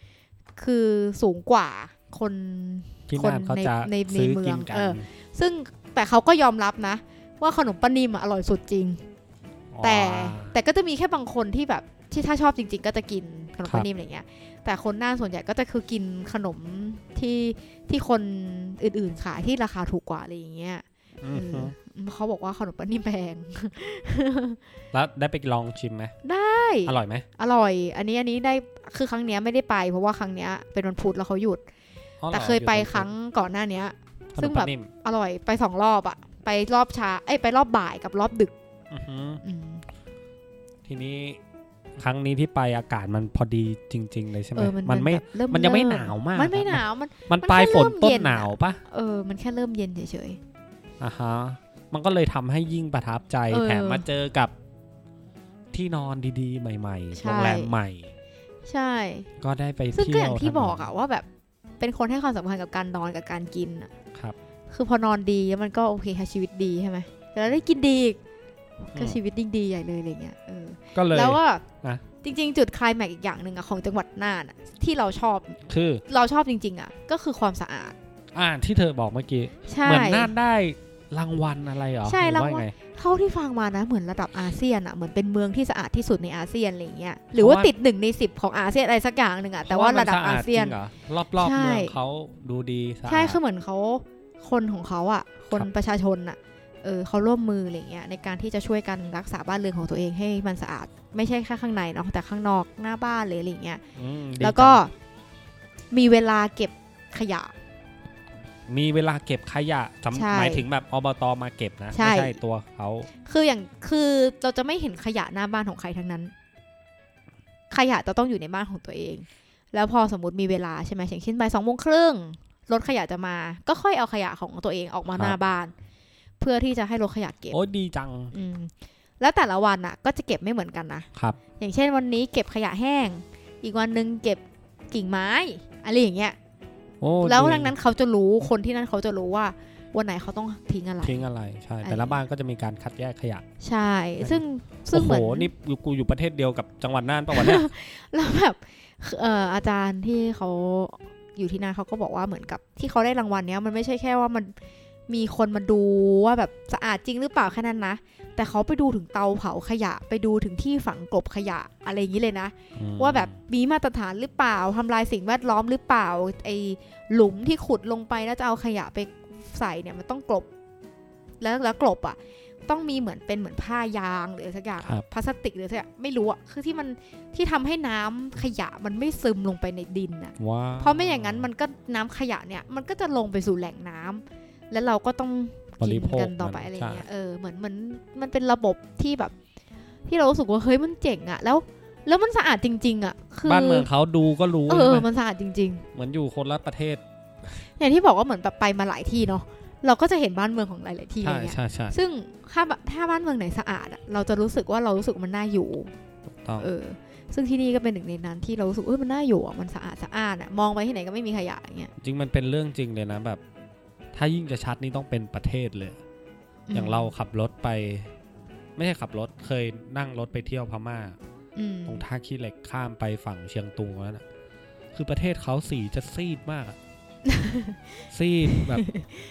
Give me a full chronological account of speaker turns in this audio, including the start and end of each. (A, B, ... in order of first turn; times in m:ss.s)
0:00.6-0:09.0 A
0:03.1-0:05.1 B
0:09.7-0:10.6 B
0:09.8-0:24.6 A
0:21.2-0:21.7 B
0:24.9-0:26.1 B
0:26.2-0:31.6 A
0:26.9-0:27.3 B
0:32.2-0:33.1 B
0:32.3-0:38.5 A
0:34.4-0:34.9 B
0:38.9-0:39.4 B
0:39.4-0:39.8 A
0:40.8-0:41.4 B
0:42.0-0:48.8 B
0:44.6-0:50.4 A
0:51.0-0:54.5 B
0:53.5-0:54.0 A
0:55.7-0:58.1 B
0:57.1-0:57.7 A
0:58.7-0:59.3 A
0:59.4-1:00.9 B
0:59.9-1:01.3 A
1:01.8-1:03.9 A
1:04.7-1:08.2 A
1:08.8-1:11.6 A
1:11.0-1:12.0 B
1:12.2-1:18.0 A
1:15.7-1:16.0 B
1:18.3-1:22.7 B
1:19.7-1:20.3 A
1:22.0-1:30.8 A
1:27.4-1:27.7 B
1:29.7-1:33.4 B
1:31.4-1:32.0 A
1:33.1-1:43.8 A
1:44.0-1:44.8 B
1:44.4-1:44.9 A
1:45.9-1:47.5 A
1:48.7-1:53.1 B
1:50.1-1:50.6 A
1:51.9-1:52.4 A
1:53.2-1:56.3 A
1:57.7-2:05.7 A
2:06.4-2:07.6 A
2:07.5-2:08.3 B
2:08.3-2:16.4 A
2:17.0-2:17.7 B
2:17.2-2:21.2 A
2:21.0-2:23.4 B
2:21.8-2:22.2 A
2:23.6-2:25.5 A
2:24.2-2:27.7 B
2:27.3-2:34.5 A
2:35.1-2:50.5 A
2:42.8-2:43.4 B
2:51.4-3:09.3 A
3:00.4-3:01.5 B
3:05.8-3:07.0 B
3:10.1-3:13.9 A
3:13.4-3:15.1 B
3:14.7-3:15.8 A
3:15.9-3:17.0 B
3:17.8-3:25.9 A
3:21.2-3:22.0 B
3:26.4-3:26.7 B
3:26.6-3:31.9 A
3:32.0-3:33.4 B
3:34.1-3:36.0 B
3:36.7-3:37.1 A
3:36.7-3:38.1 B
3:38.8-3:41.2 B
3:41.6-3:42.0 A
3:41.9-3:44.2 B
3:44.9-3:46.8 B
3:47.3-3:47.8 A
3:48.1-3:48.9 B
3:48.5-3:49.1 A